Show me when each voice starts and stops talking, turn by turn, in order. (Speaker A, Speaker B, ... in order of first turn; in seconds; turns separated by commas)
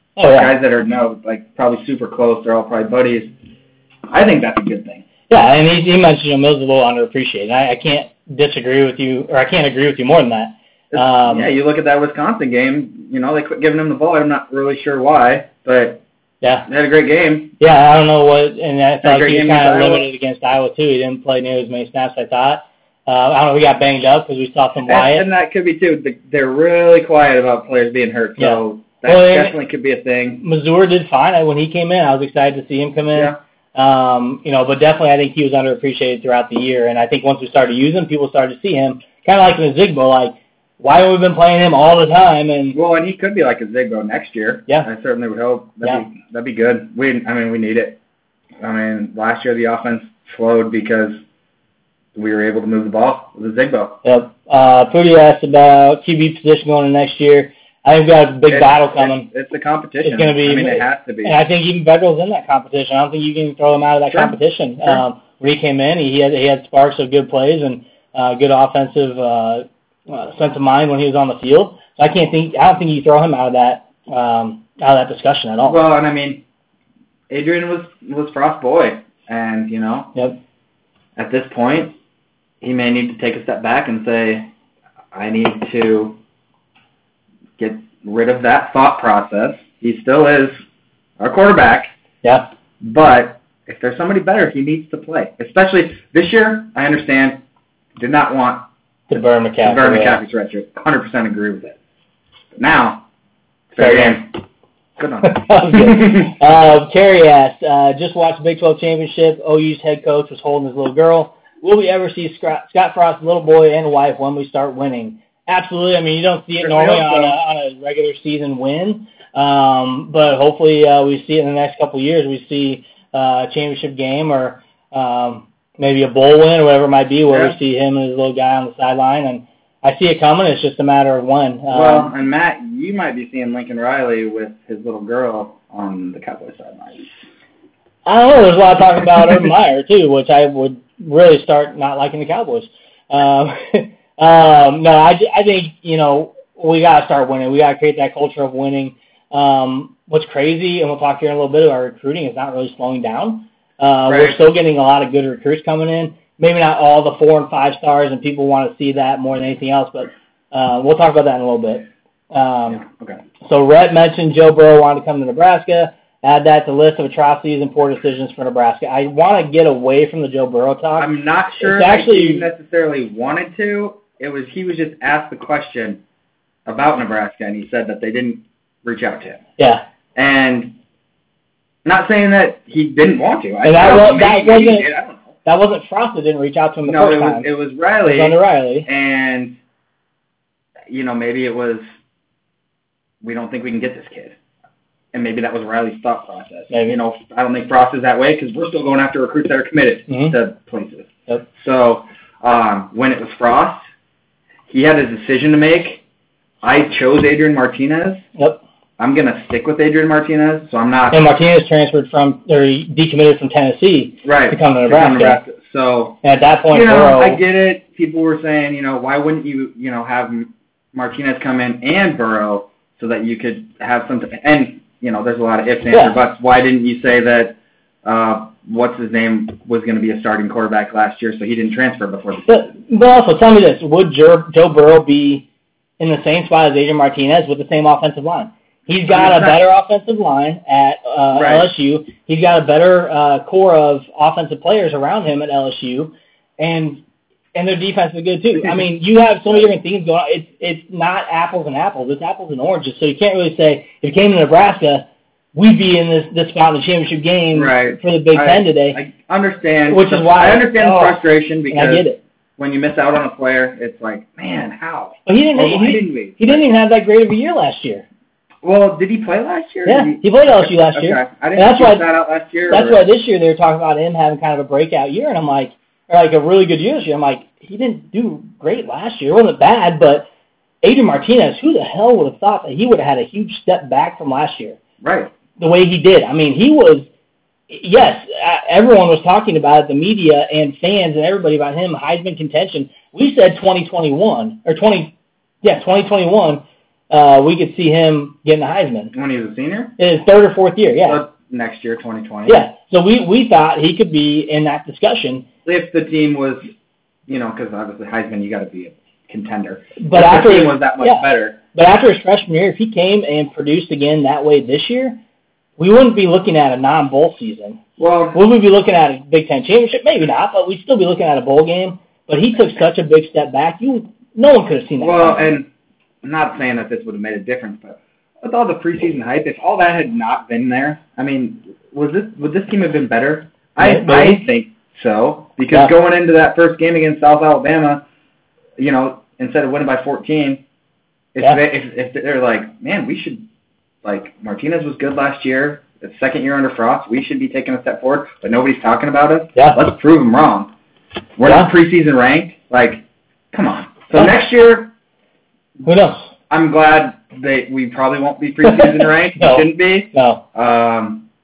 Speaker A: 0.1-0.6, Speaker B: 0.3-3.3, Speaker B: 4.1-5.0, Speaker A: 5.3-11.5, Speaker B: 10.9-16.0, Speaker A: 16.4-16.7, Speaker B: 16.7-17.5, Speaker A: 17.6-25.2, Speaker B: 19.0-20.1, Speaker B: 24.9-30.4, Speaker A: 28.4-29.6, Speaker A: 30.4-42.8, Speaker B: 33.1-33.4, Speaker B: 42.7-48.0, Speaker B: 48.6-51.2, Speaker B: 52.1-54.0, Speaker A: 54.0-59.3, Speaker B: 58.5-61.4, Speaker A: 60.0-75.8, Speaker B: 64.1-65.0, Speaker B: 75.6-76.4, Speaker B: 77.3-80.1, Speaker B: 81.2-82.0, Speaker B: 82.6-84.5, Speaker B: 85.1-86.2, Speaker B: 87.6-90.6, Speaker B: 91.2-91.9, Speaker A: 92.2-92.5, Speaker B: 92.8-97.4, Speaker B: 98.0-98.7, Speaker A: 99.1-100.2, Speaker B: 99.6-101.8, Speaker B: 102.5-103.0, Speaker B: 103.7-104.4, Speaker A: 103.8-104.3, Speaker B: 105.0-106.3, Speaker A: 105.2-132.1, Speaker B: 116.6-117.4, Speaker B: 127.3-127.5, Speaker B: 131.7-137.1, Speaker A: 138.0-162.8, Speaker B: 154.1-154.4, Speaker B: 162.7-163.2, Speaker A: 163.4-172.5, Speaker B: 170.9-176.0, Speaker B: 176.7-179.4, Speaker A: 179.6-179.8, Speaker B: 180.1-180.8, Speaker B: 181.8-185.2, Speaker A: 183.6-184.9, Speaker A: 185.4-187.5, Speaker B: 186.8-189.6, Speaker A: 188.0-188.9, Speaker B: 190.9-191.8, Speaker B: 193.2-194.4, Speaker B: 195.1-203.8, Speaker A: 196.7-196.9, Speaker A: 200.1-200.3, Speaker B: 204.7-206.0, Speaker B: 206.6-208.2, Speaker A: 208.3-208.6, Speaker B: 209.0-211.2, Speaker A: 211.1-215.4, Speaker B: 214.2-216.2, Speaker A: 216.2-217.4, Speaker B: 216.7-232.7, Speaker A: 225.9-226.2, Speaker A: 232.5-235.4, Speaker A: 236.0-247.0, Speaker B: 239.1-239.6, Speaker B: 241.3-241.7, Speaker A: 247.5-259.0, Speaker B: 257.5-262.1, Speaker A: 259.9-262.2, Speaker B: 262.6-266.6, Speaker A: 265.2-268.1, Speaker B: 268.6-273.0, Speaker A: 269.9-272.1, Speaker A: 272.7-280.3, Speaker A: 280.8-284.8, Speaker B: 285.0-285.3, Speaker A: 285.6-287.1, Speaker A: 287.7-299.1, Speaker B: 299.1-300.0, Speaker A: 300.0-301.2, Speaker B: 301.0-302.6, Speaker A: 302.5-305.4, Speaker B: 305.6-306.7, Speaker B: 307.3-311.6, Speaker A: 310.0-315.2, Speaker A: 315.8-317.8, Speaker B: 318.0-318.4, Speaker A: 318.3-325.6, Speaker B: 325.0-325.7, Speaker B: 326.2-338.0, Speaker A: 333.8-334.4, Speaker B: 338.8-340.6, Speaker B: 341.3-343.4, Speaker B: 344.0-350.7, Speaker B: 351.4-354.9, Speaker A: 351.4-351.7, Speaker A: 355.8-356.2, Speaker B: 356.5-361.3, Speaker A: 358.7-360.4